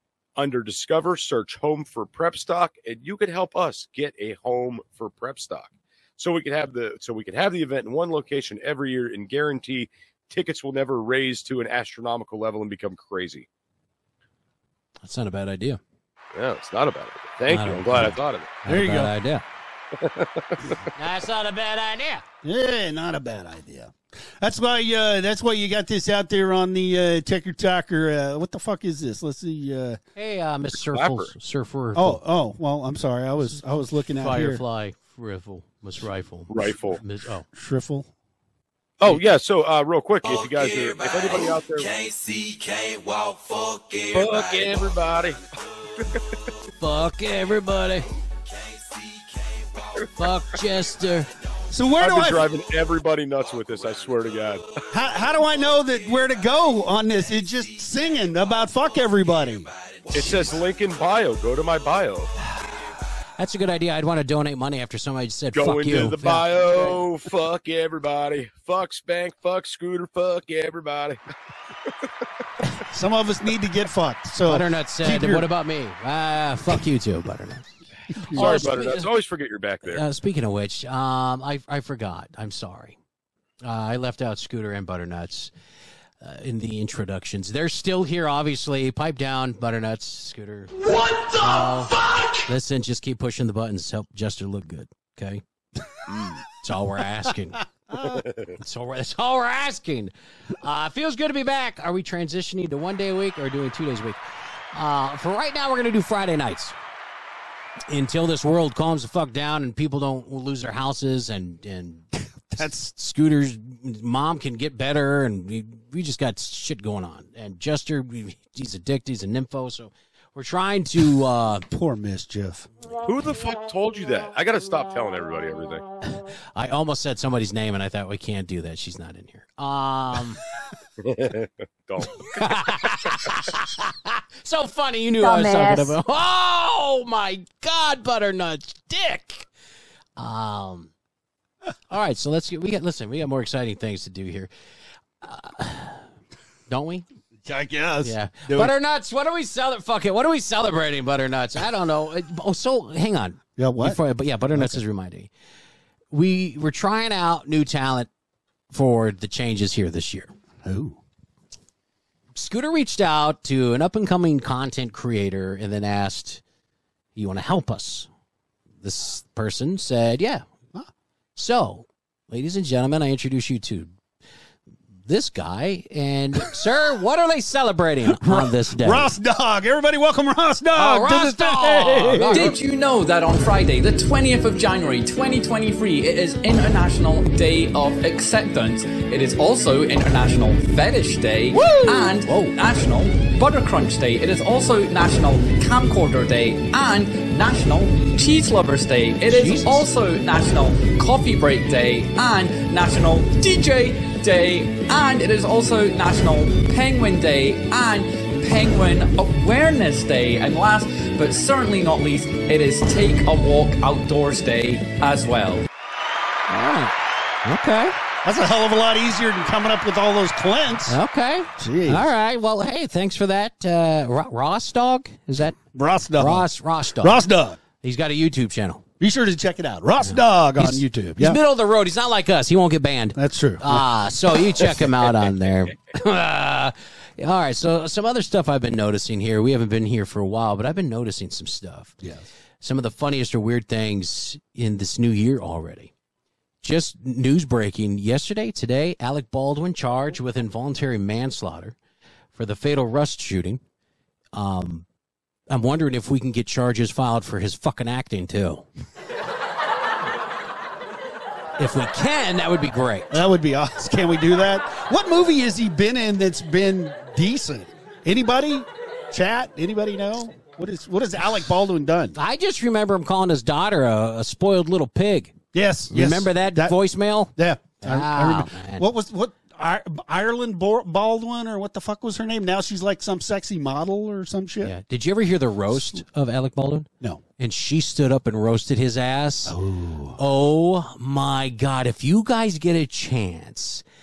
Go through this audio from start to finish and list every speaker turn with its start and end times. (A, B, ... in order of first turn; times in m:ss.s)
0:00.4-0:13.5 A
0:15.0-0:15.8 B
0:16.3-0:18.6 A
0:17.5-0:19.4 B
0:18.7-0:19.1 C
0:20.0-0:20.8 A
0:21.0-0:22.2 B
0:22.4-0:30.0 C
0:30.2-0:32.2 B
0:30.9-0:31.3 A
0:32.0-0:34.6 C
0:34.2-0:37.5 B
0:36.5-0:37.0 A
0:37.5-0:38.1 C
0:39.0-0:42.0 A
0:44.0-0:45.4 A
0:46.8-0:48.1 B
0:50.2-0:51.3 B
0:51.7-0:52.5 C
0:52.0-0:54.8 A
0:54.9-0:59.7 C
1:00.1-1:02.3 A
1:03.4-1:06.5 B
1:05.5-1:11.2 A
1:12.9-1:15.5 C
1:14.5-1:17.7 B
1:18.1-1:18.7 C
1:18.3-1:19.1 B
1:18.3-1:20.0 A
1:19.9-1:23.0 B
1:23.6-1:25.5 B
1:26.2-1:35.4 B
1:36.1-1:36.4 A
1:36.6-1:37.6 B
1:38.0-1:38.5 A
1:38.6-1:44.2 B
1:44.7-1:46.8 B
1:47.9-1:52.1 B
1:52.5-1:52.8 C
1:52.6-2:01.6 B
2:01.7-2:02.7 C
2:03.0-2:05.8 A
2:06.6-2:10.4 B
2:11.0-2:12.5 A
2:12.2-2:19.5 B
2:20.2-2:20.9 B
2:21.9-2:24.5 B
2:25.2-2:26.0 B
2:26.7-2:27.0 B
2:27.5-2:28.7 C
2:28.0-2:35.3 B
2:33.6-2:34.0 C
2:34.5-2:34.8 C
2:36.1-2:38.1 B
2:38.7-2:40.3 B
2:40.6-2:41.0 C
2:42.4-2:46.4 B
2:47.2-2:48.1 B
2:48.8-2:50.4 B
2:51.4-2:53.9 B
2:55.1-2:59.1 B
2:58.1-3:02.6 C
3:00.7-3:02.6 B
3:02.3-3:35.7 D
3:11.5-3:12.6 B
3:19.3-3:19.9 B
3:36.5-3:38.0 B
3:38.2-3:41.0 C
3:40.9-3:45.6 B
3:41.6-3:42.1 C
3:45.7-3:46.5 C
3:46.2-3:47.2 B
3:47.0-3:47.6 C
3:47.8-3:48.8 B
3:49.0-3:51.4 C
3:50.1-4:02.0 B
3:53.2-3:53.8 C
4:02.6-4:05.9 B
4:06.6-4:11.8 B
4:12.3-4:13.6 B
4:14.3-4:14.9 B
4:15.5-4:18.6 B
4:21.6-4:23.1 B
4:23.1-4:32.2 C
4:32.2-4:35.4 B
4:35.5-4:36.8 C
4:35.9-4:38.9 B
4:37.4-4:44.7 C
4:44.6-4:46.9 B
4:47.4-4:49.6 B
4:49.5-4:50.2 C
4:50.2-4:53.8 B